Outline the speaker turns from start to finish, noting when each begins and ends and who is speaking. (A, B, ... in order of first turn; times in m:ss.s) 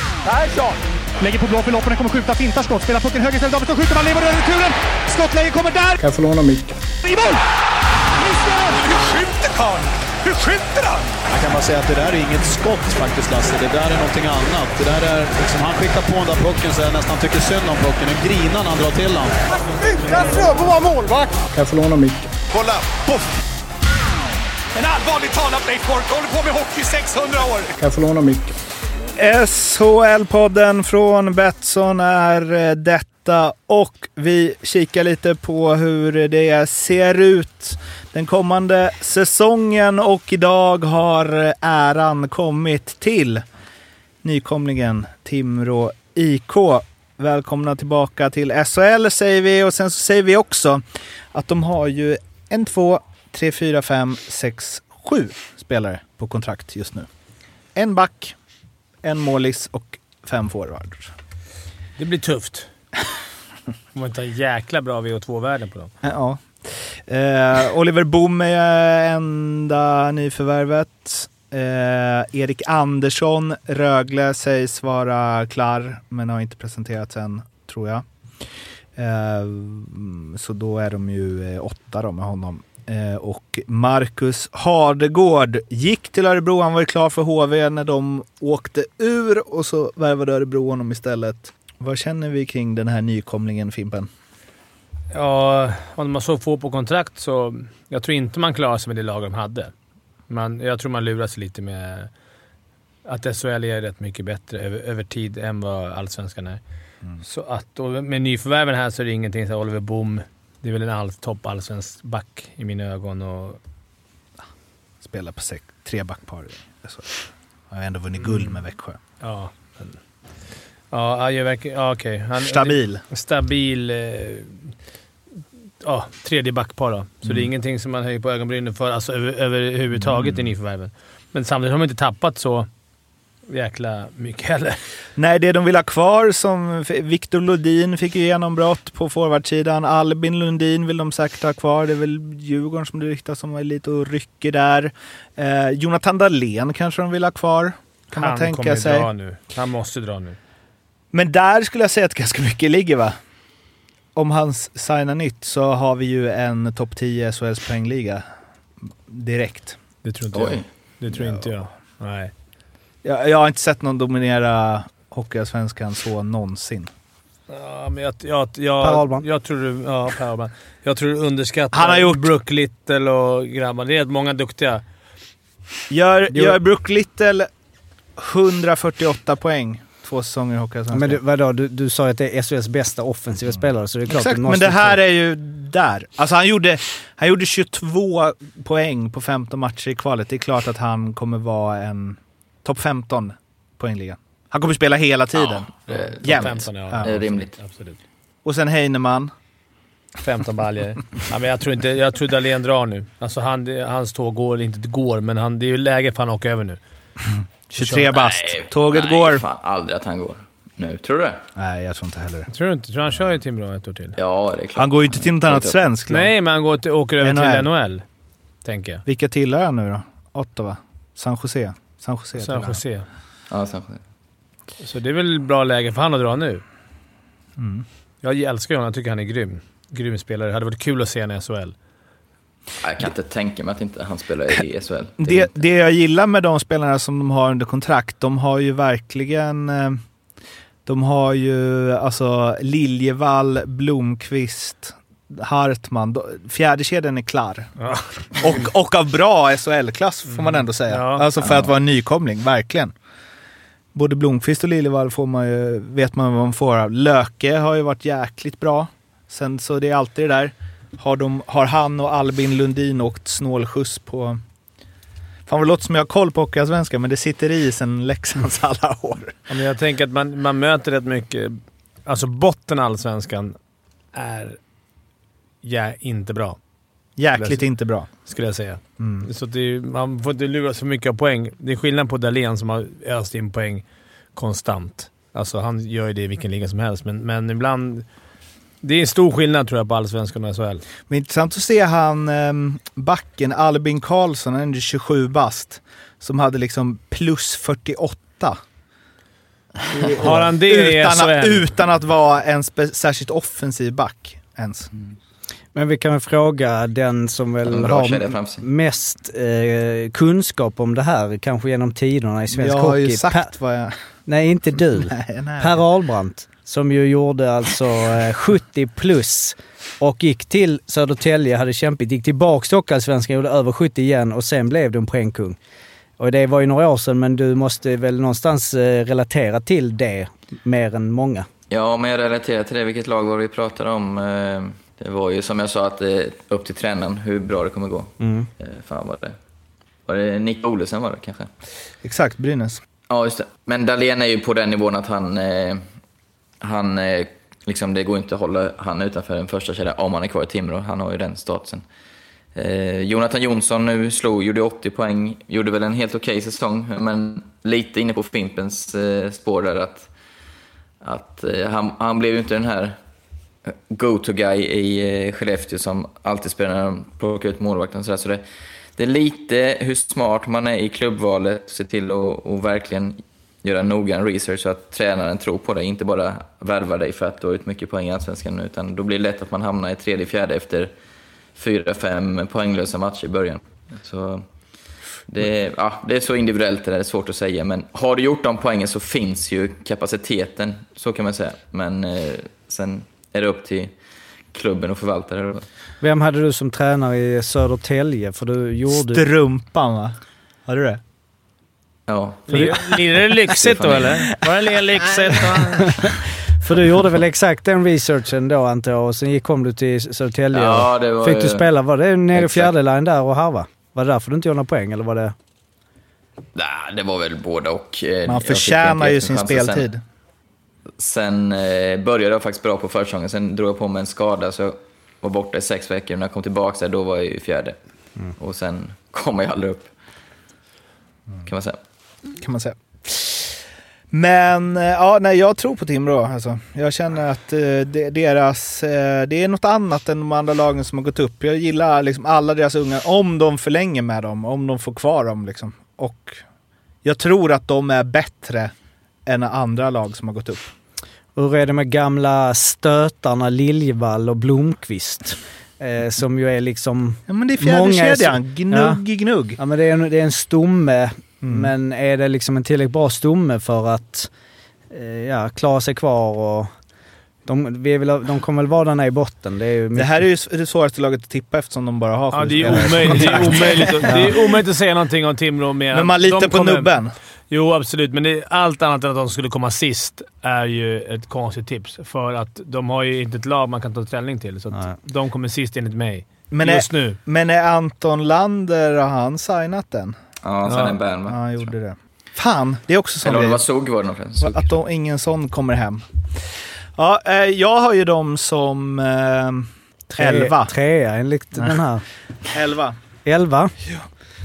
0:00.3-0:00.7 A
0:01.2-0:06.0 B
0:06.0-0:06.8 C
0:07.0-0:07.4 B
0:08.2-0:08.8 B
0:08.4-0:11.2 A
0:11.2-0:19.4 D
0:19.8-0:21.4 A
0:20.0-0:20.7 C
0:21.5-0:22.4 C
0:22.5-0:23.1 A
0:24.8-0:27.7 A
0:27.7-0:28.6 C
0:29.2-0:43.4 E
0:44.2-0:50.8 E
0:51.3-0:57.1 E
0:57.7-0:58.3 E
0:59.0-1:01.1 E
1:02.0-1:02.7 F
1:03.9-1:05.9 F
1:06.0-1:06.4 E
1:07.1-1:18.0 E
1:19.0-1:34.1 E
1:35.1-1:39.7 F
1:40.3-1:42.1 F
1:43.0-1:46.6 F
1:47.2-1:53.6 F
1:55.0-1:57.2 E
1:57.7-1:59.0 E
1:59.2-2:00.0 F
2:00.9-2:04.6 F
2:02.4-2:03.0 E
2:05.8-2:12.7 F
2:13.5-2:14.8 F
2:15.2-2:29.1 E
2:28.1-2:30.4 F
2:31.1-2:33.2 E
2:34.2-2:38.2 E
2:39.1-2:39.8 E
2:40.0-2:42.3 F
2:40.3-2:40.6 G
2:43.0-2:46.9 E
2:47.5-2:54.8 F
2:48.8-2:49.2 H
2:51.7-2:52.3 E
2:55.9-2:57.5 E
2:56.3-2:56.6 H
2:58.2-3:01.2 E
3:00.9-3:05.0 H
3:04.1-3:17.1 E
3:15.4-3:17.6 G
3:15.9-3:18.0 F
3:18.4-3:19.3 E
3:20.2-3:26.8 F
3:27.7-3:29.4 E
3:27.8-3:28.1 F
3:28.1-3:31.4 G
3:31.6-3:32.5 E
3:32.5-3:34.2 F
3:34.2-3:35.8 G
3:34.7-3:36.3 E
3:36.1-3:38.0 F
3:37.2-3:37.7 E
3:38.6-3:39.0 F
3:39.0-3:42.8 E
3:42.4-3:43.1 F
3:43.5-3:44.0 G
3:44.8-3:46.6 F
3:47.6-3:47.8 E
3:48.2-3:51.7 F
3:52.8-3:55.6 G
3:55.2-4:00.0 E
4:00.8-4:07.7 E
4:07.8-4:08.6 F
4:08.4-4:12.9 E
4:10.4-4:11.3 F
4:13.9-4:24.4 E
4:25.5-4:29.4 E
4:29.5-4:33.5 F
4:34.1-4:34.6 F
4:35.6-4:36.6 F
4:37.2-4:38.1 E
4:37.3-4:37.6 F
4:38.2-4:43.8 F
4:39.0-4:39.3 E
4:44.4-4:48.0 F
4:48.8-4:50.8 F
4:51.1-4:58.6 E
4:59.9-5:01.6 F
4:59.9-5:04.9 E
5:05.7-5:13.5 H
5:07.7-5:08.6 G
5:12.5-5:13.9 E
5:14.3-5:25.6 H
5:15.0-5:15.8 E
5:26.2-5:31.5 H
5:31.7-5:39.3 G
5:38.2-5:38.5 H
5:40.1-5:41.5 G
5:42.0-5:42.8 E
5:43.1-5:45.8 G
5:46.6-5:51.8 G
5:52.5-6:00.1 G
6:01.0-6:02.9 G
6:03.7-6:08.4 G
6:09.0-6:20.9 G
6:21.6-6:24.4 G
6:25.3-6:33.9 G
6:34.5-6:35.6 G
6:36.0-6:39.2 H
6:38.9-6:40.1 E
6:40.6-6:41.0 E
6:42.1-6:43.0 G
6:42.5-6:46.0 F
6:42.5-6:42.8 H
6:43.5-6:44.2 G
6:45.7-6:55.3 H
6:50.5-6:51.7 G
6:52.3-6:52.7 G
6:56.5-6:59.9 G
6:58.2-7:00.0 E
7:01.0-7:07.8 G
7:08.4-7:09.9 G
7:11.4-7:11.8 G
7:12.3-7:13.4 E
7:14.1-7:26.4 E
7:27.0-7:28.7 E
7:29.2-7:30.7 E
7:31.3-7:39.0 H
7:37.3-7:39.6 E
7:39.6-7:44.3 H
7:41.4-7:41.7 E
7:44.9-7:46.7 H
7:47.4-7:50.2 H
7:49.9-7:54.2 E
7:52.3-7:56.9 F
7:52.7-7:53.1 H
7:55.9-7:57.1 E
7:57.5-8:07.2 F
8:06.5-8:10.1 E
8:10.4-8:11.7 G
8:10.7-8:10.9 F
8:11.2-8:13.6 E
8:13.2-8:14.7 G
8:14.4-8:16.0 E
8:17.0-8:19.7 E
8:20.1-8:22.0 H
8:20.2-8:20.7 E
8:22.4-8:23.0 E
8:23.2-8:23.7 H